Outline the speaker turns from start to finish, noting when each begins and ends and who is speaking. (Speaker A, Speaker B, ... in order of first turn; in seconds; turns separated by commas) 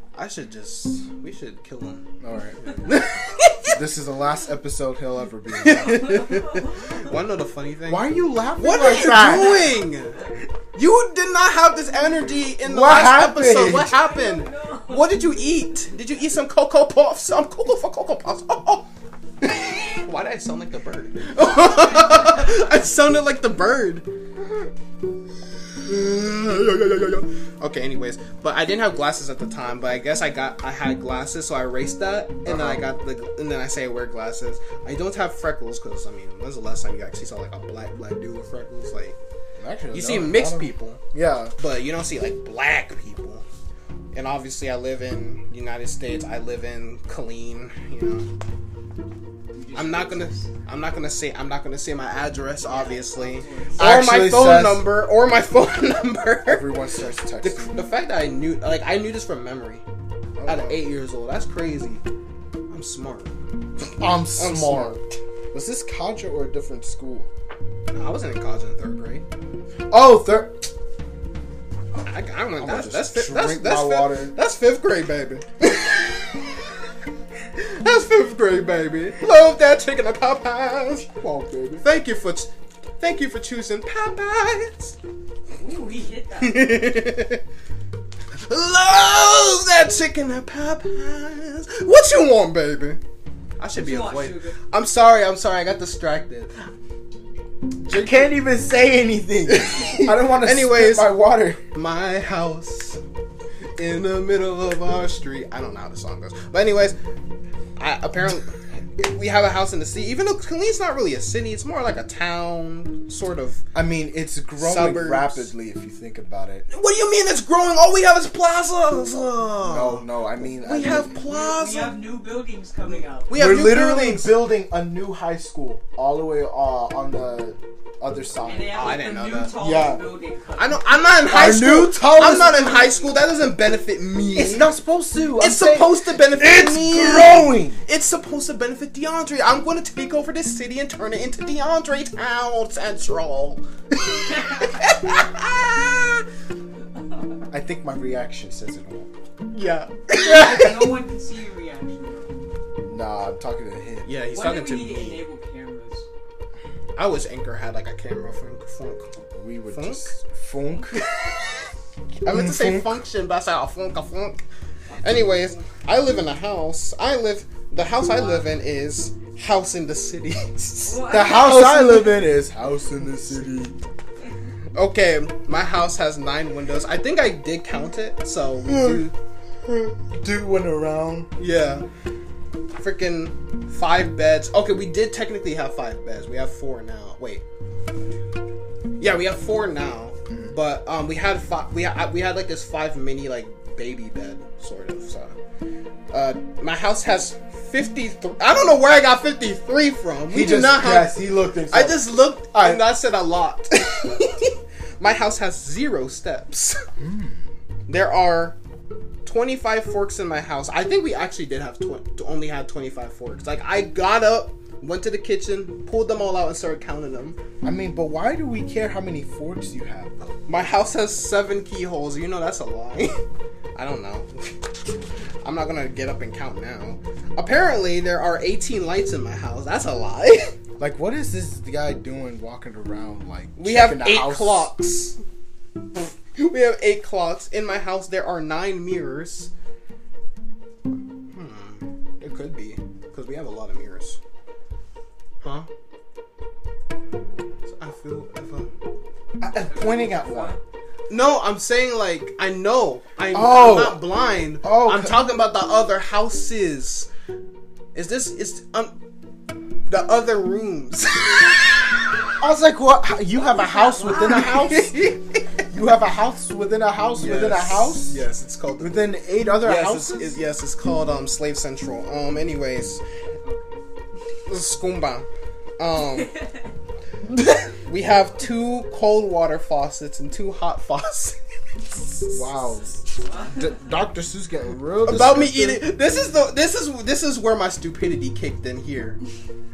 Speaker A: 0.1-2.0, Speaker B: 2.2-3.0, Speaker A: 2.8-3.8, Speaker B: 3.6-6.6, Speaker A: 5.5-18.9, Speaker C: 6.2-6.7, Speaker B: 7.9-9.7, Speaker B: 12.6-13.9, Speaker C: 13.8-15.2, Speaker A: 19.4-24.1, Speaker C: 22.2-22.6, Speaker A: 25.8-39.2, Speaker B: 32.4-32.8, Speaker B: 39.6-41.5, Speaker A: 39.9-41.0, Speaker A: 41.6-43.4, Speaker A: 44.1-48.3, Speaker C: 49.5-50.5, Speaker A: 49.7-56.6, Speaker C: 52.6-53.9, Speaker B: 53.8-54.8, Speaker B: 56.4-57.8, Speaker A: 57.4-59.8, Speaker B: 60.4-60.8, Speaker A: 60.5-62.0, Speaker A: 62.7-65.2, Speaker B: 64.0-65.0, Speaker B: 65.5-67.3, Speaker A: 67.9-69.2, Speaker B: 69.9-70.7, Speaker A: 72.0-76.5, Speaker B: 72.6-74.3, Speaker A: 77.5-81.1, Speaker B: 81.1-81.8, Speaker A: 81.8-85.0, Speaker C: 85.6-86.9, Speaker A: 86.4-87.4, Speaker A: 88.4-93.0, Speaker A: 93.6-96.5, Speaker C: 93.7-94.6, Speaker A: 97.8-98.3, Speaker B: 97.9-101.6, Speaker A: 99.5-101.2, Speaker A: 101.7-103.0, Speaker A: 103.8-107.0, Speaker A: 107.8-113.6, Speaker B: 113.7-116.7, Speaker A: 114.6-115.5, Speaker A: 116.7-121.9, Speaker B: 119.6-121.2, Speaker C: 121.2-123.3, Speaker A: 123.3-124.3, Speaker B: 123.3-128.9, Speaker C: 128.4-130.8, Speaker A: 128.7-129.6, Speaker B: 129.6-130.0, Speaker A: 130.6-134.7, Speaker B: 131.3-132.9, Speaker C: 132.1-133.2, Speaker B: 134.3-137.8, Speaker A: 135.4-146.2, Speaker B: 147.5-149.1, Speaker A: 149.5-150.8, Speaker C: 150.2-152.3, Speaker B: 150.3-150.8, Speaker B: 152.8-154.1, Speaker A: 154.1-155.2, Speaker C: 154.3-156.1, Speaker A: 156.9-159.1, Speaker B: 159.3-161.1, Speaker A: 159.7-160.1, Speaker A: 161.1-161.6, Speaker A: 162.2-164.4, Speaker B: 162.2-162.9, Speaker C: 164.9-165.6, Speaker A: 165.0-171.1, Speaker C: 168.1-168.5, Speaker C: 170.8-172.2, Speaker B: 171.1-173.8, Speaker A: 174.7-179.1, Speaker B: 178.6-179.0, Speaker B: 179.6-181.3, Speaker A: 181.4-181.8, Speaker A: 182.8-187.4, Speaker A: 189.0-195.3, Speaker A: 196.1-206.8, Speaker B: 200.3-202.8, Speaker B: 207.0-207.4, Speaker A: 207.9-208.6, Speaker A: 209.2-217.4, Speaker B: 217.6-220.3, Speaker A: 220.5-223.2, Speaker A: 223.7-224.5, Speaker A: 225.4-230.5, Speaker B: 230.8-234.7, Speaker A: 233.6-235.2, Speaker A: 235.9-239.5, Speaker A: 241.3-244.2, Speaker A: 245.4-245.7, Speaker A: 247.7-248.7, Speaker B: 249.4-250.6, Speaker C: 249.5-250.6, Speaker A: 251.1-257.1, Speaker B: 253.3-254.1, Speaker B: 254.6-255.2, Speaker A: 257.9-258.9, Speaker A: 259.9-262.2, Speaker B: 262.4-265.1, Speaker C: 263.4-264.6, Speaker A: 264.1-265.6, Speaker B: 265.7-268.2, Speaker A: 267.2-269.0, Speaker B: 268.8-270.4, Speaker A: 269.6-273.0, Speaker C: 273.4-273.8, Speaker A: 274.4-275.3, Speaker A: 275.8-276.4, Speaker B: 277.4-277.7, Speaker A: 277.8-282.4, Speaker B: 282.3-285.8, Speaker C: 283.1-283.9, Speaker A: 285.1-289.2